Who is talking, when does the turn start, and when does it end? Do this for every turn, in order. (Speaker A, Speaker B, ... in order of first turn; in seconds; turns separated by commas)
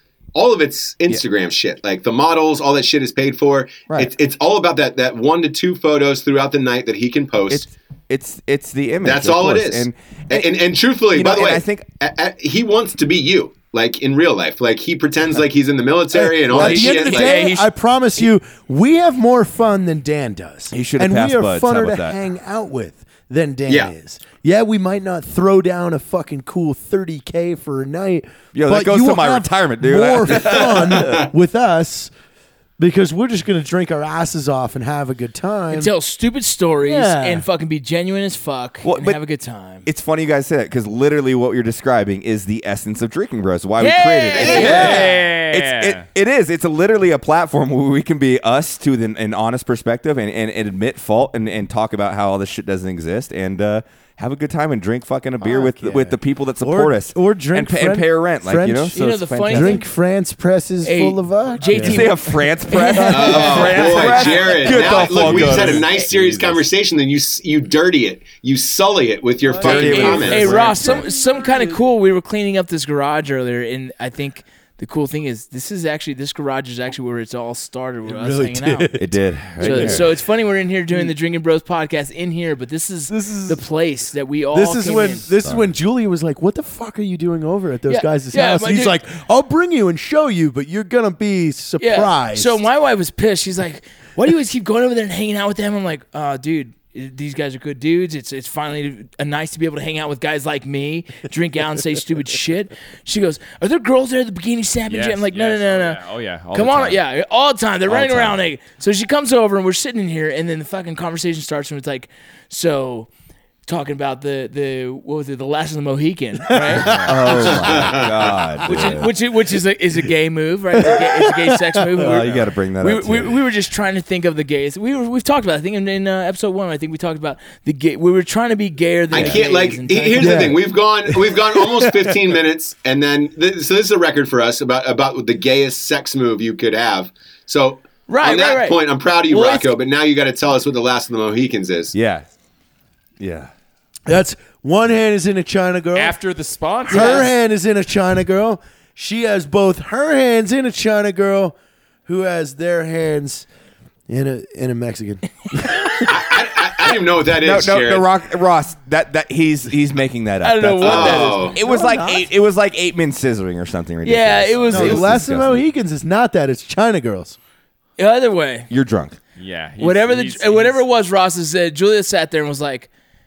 Speaker A: 0.3-7.7, Speaker B: 7.5-10.5, Speaker A: 9.0-17.4, Speaker B: 11.1-11.9, Speaker C: 16.1-32.1, Speaker D: 16.5-17.7, Speaker B: 20.7-22.2, Speaker A: 23.7-23.9, Speaker B: 28.5-31.3, Speaker A: 31.0-31.3, Speaker C: 32.8-35.9, Speaker D: 35.7-39.9, Speaker C: 36.8-37.4, Speaker B: 38.8-39.2, Speaker B: 39.8-59.8, Speaker D: 43.8-45.0, Speaker A: 44.4-45.0, Speaker E: 44.5-46.0, Speaker C: 44.5-45.1, Speaker C: 55.4-59.0, Speaker D: 58.9-59.9, Speaker C: 59.5-62.2, Speaker D: 60.8-63.8, Speaker B: 61.7-66.6, Speaker C: 62.9-65.6, Speaker A: 63.1-70.6, Speaker C: 69.4-71.8, Speaker B: 69.6-71.0, Speaker D: 69.7-78.9, Speaker C: 78.0-80.1, Speaker B: 79.0-80.1, Speaker D: 79.6-85.3, Speaker C: 83.1-83.6, Speaker C: 84.5-92.6, Speaker B: 85.4-85.7, Speaker D: 87.9-89.0, Speaker D: 91.8-106.0, Speaker E: 104.9-107.0, Speaker D: 106.5-113.1, Speaker B: 107.9-108.4, Speaker D: 113.7-117.8, Speaker C: 116.6-117.5, Speaker E: 116.8-117.1, Speaker B: 116.8-119.1, Speaker A: 117.5-118.3, Speaker D: 118.6-130.5, Speaker C: 120.8-122.2, Speaker B: 122.0-123.4, Speaker A: 129.1-141.9, Speaker B: 129.1-129.4, Speaker C: 130.2-132.2, Speaker D: 138.1-139.7, Speaker B: 141.9-142.3, Speaker B: 143.2-143.5, Speaker C: 144.1-146.1, Speaker E: 145.9-147.3, Speaker C: 146.9-151.5, Speaker D: 146.9-147.3, Speaker C: 152.1-153.4, Speaker C: 154.1-156.1, Speaker A: 156.0-158.1, Speaker B: 157.4-165.6, Speaker D: 160.4-161.6, Speaker A: 160.8-161.6, Speaker C: 161.6-162.2, Speaker D: 164.0-165.2, Speaker C: 164.7-167.4, Speaker D: 168.0-168.7, Speaker B: 168.7-169.2, Speaker E: 169.3-170.8, Speaker D: 169.8-172.9